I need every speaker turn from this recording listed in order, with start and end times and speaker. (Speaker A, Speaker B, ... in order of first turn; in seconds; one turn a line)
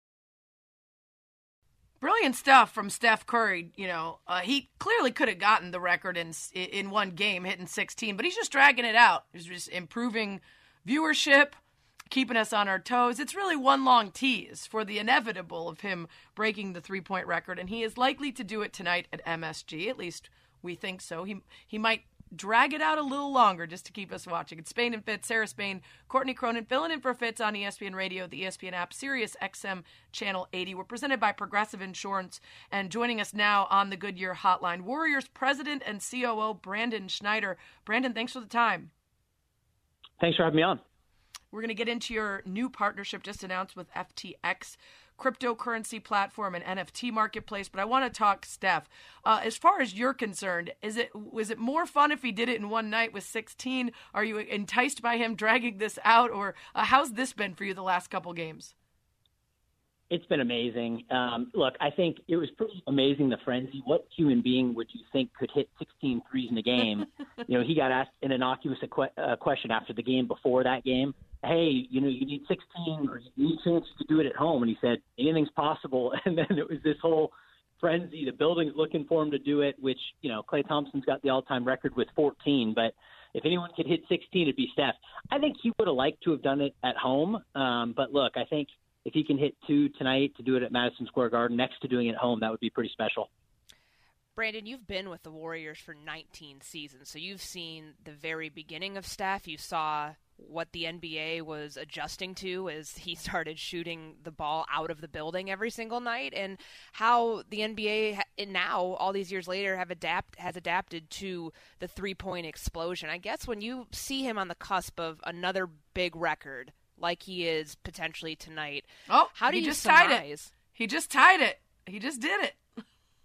Speaker A: 2.0-38.9
Speaker B: 40.2-40.8
Speaker A: 41.5-58.7
Speaker B: 60.1-93.3
Speaker C: 94.4-120.5
Speaker A: 119.1-122.6